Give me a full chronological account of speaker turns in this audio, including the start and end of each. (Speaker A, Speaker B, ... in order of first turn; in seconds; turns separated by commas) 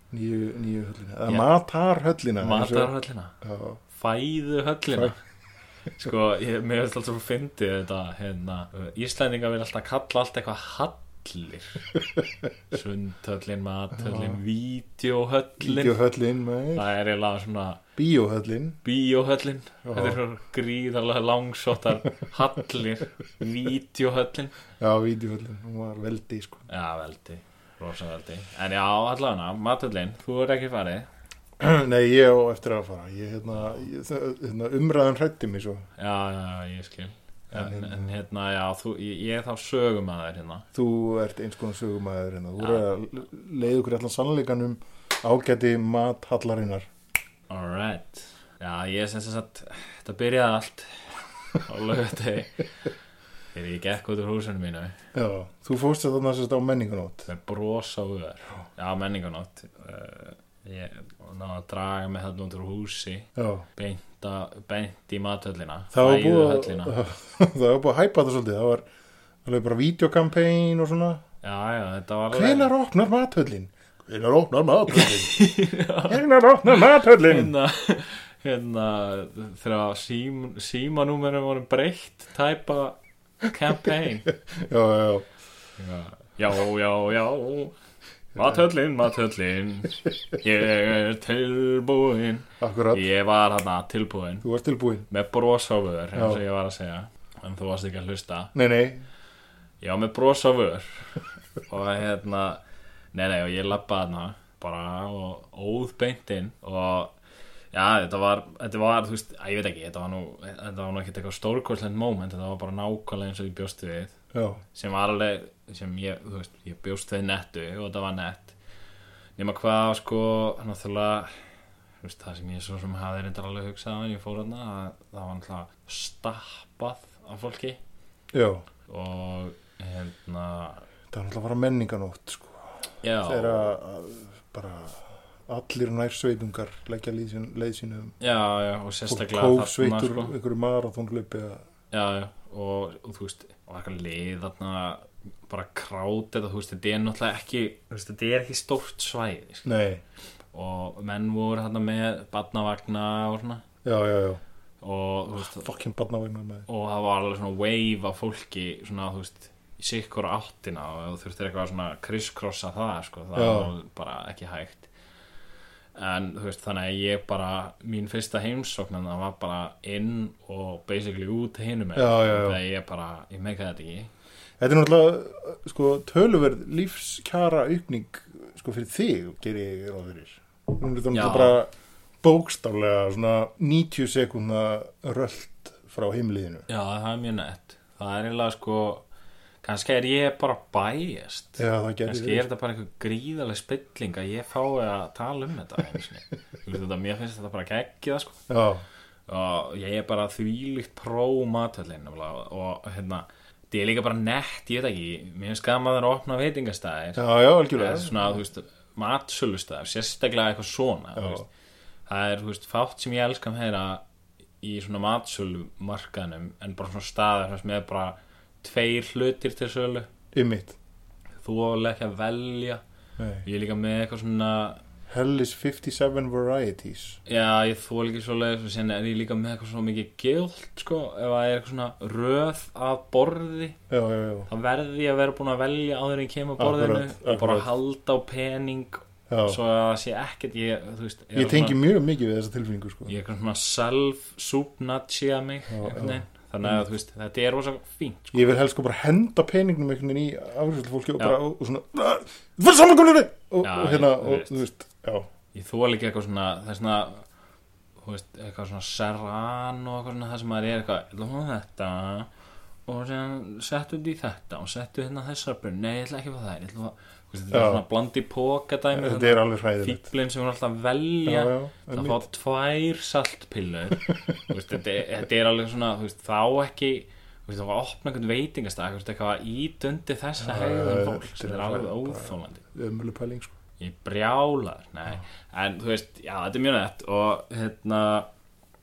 Speaker A: 0.1-3.8, Speaker B: 2.4-3.3, Speaker B: 3.9-5.2, Speaker B: 6.0-11.9, Speaker B: 12.7-16.0, Speaker A: 14.0-14.4, Speaker A: 15.6-16.9, Speaker B: 16.8-17.8, Speaker A: 18.0-18.8, Speaker B: 18.8-24.6, Speaker A: 19.9-20.2, Speaker A: 24.8-26.6, Speaker B: 26.7-31.1, Speaker A: 31.6-35.9, Speaker B: 36.0-40.6, Speaker A: 37.5-38.0, Speaker A: 40.7-46.9, Speaker B: 42.6-42.9, Speaker B: 47.5-52.7, Speaker B: 53.5-55.0, Speaker A: 55.1-57.3, Speaker B: 57.3-67.0, Speaker A: 63.4-63.7, Speaker A: 65.9-68.8, Speaker A: 69.5-71.2, Speaker B: 71.4-72.7, Speaker A: 72.3-75.4, Speaker B: 74.9-84.3, Speaker A: 76.1-77.5, Speaker A: 84.3-85.3, Speaker B: 85.8-87.8, Speaker B: 88.3-94.5, Speaker A: 92.6-93.0, Speaker A: 94.4-95.1, Speaker B: 95.1-98.5, Speaker A: 96.2-96.4, Speaker A: 98.5-99.0, Speaker B: 99.8-102.6, Speaker B: 103.1-107.2, Speaker B: 107.7-114.2, Speaker A: 114.3-114.6, Speaker B: 114.7-118.5, Speaker B: 119.4-121.4, Speaker B: 122.0-127.8, Speaker A: 128.3-128.7, Speaker B: 128.9-130.8, Speaker A: 131.1-132.7, Speaker B: 133.0-133.8, Speaker A: 133.2-138.2, Speaker B: 138.2-140.3, Speaker A: 139.1-141.6, Speaker B: 141.9-149.7, Speaker A: 149.7-150.0, Speaker B: 150.5-153.6, Speaker A: 153.8-154.4, Speaker B: 154.8-155.7, Speaker A: 155.4-156.7, Speaker B: 156.7-164.9, Speaker A: 163.3-163.7, Speaker B: 166.0-174.1, Speaker A: 171.9-172.6, Speaker A: 174.6-181.7, Speaker B: 181.1-181.6, Speaker A: 182.2-186.7, Speaker B: 186.7-189.1, Speaker B: 189.6-198.4, Speaker A: 191.6-192.5, Speaker A: 198.5-198.8, Speaker B: 199.3-211.4, Speaker A: 207.2-208.4, Speaker A: 211.2-211.5, Speaker B: 212.1-214.0, Speaker B: 214.6-220.1, Speaker A: 220.3-220.8, Speaker B: 221.4-222.8, Speaker A: 223.2-223.5, Speaker B: 223.4-224.8, Speaker A: 225.1-227.2, Speaker B: 227.3-233.8, Speaker A: 233.9-234.5, Speaker B: 234.5-241.8, Speaker A: 236.6-237.7, Speaker A: 239.3-239.6, Speaker A: 241.3-243.1, Speaker B: 243.1-248.5, Speaker A: 245.7-246.8, Speaker A: 248.3-255.3, Speaker B: 253.6-254.6, Speaker B: 255.5-257.3, Speaker B: 258.0-262.3, Speaker B: 262.9-282.6, Speaker A: 267.5-267.8, Speaker A: 268.9-270.1, Speaker A: 271.3-272.2, Speaker A: 273.9-274.5, Speaker A: 280.4-283.5, Speaker B: 283.8-288.3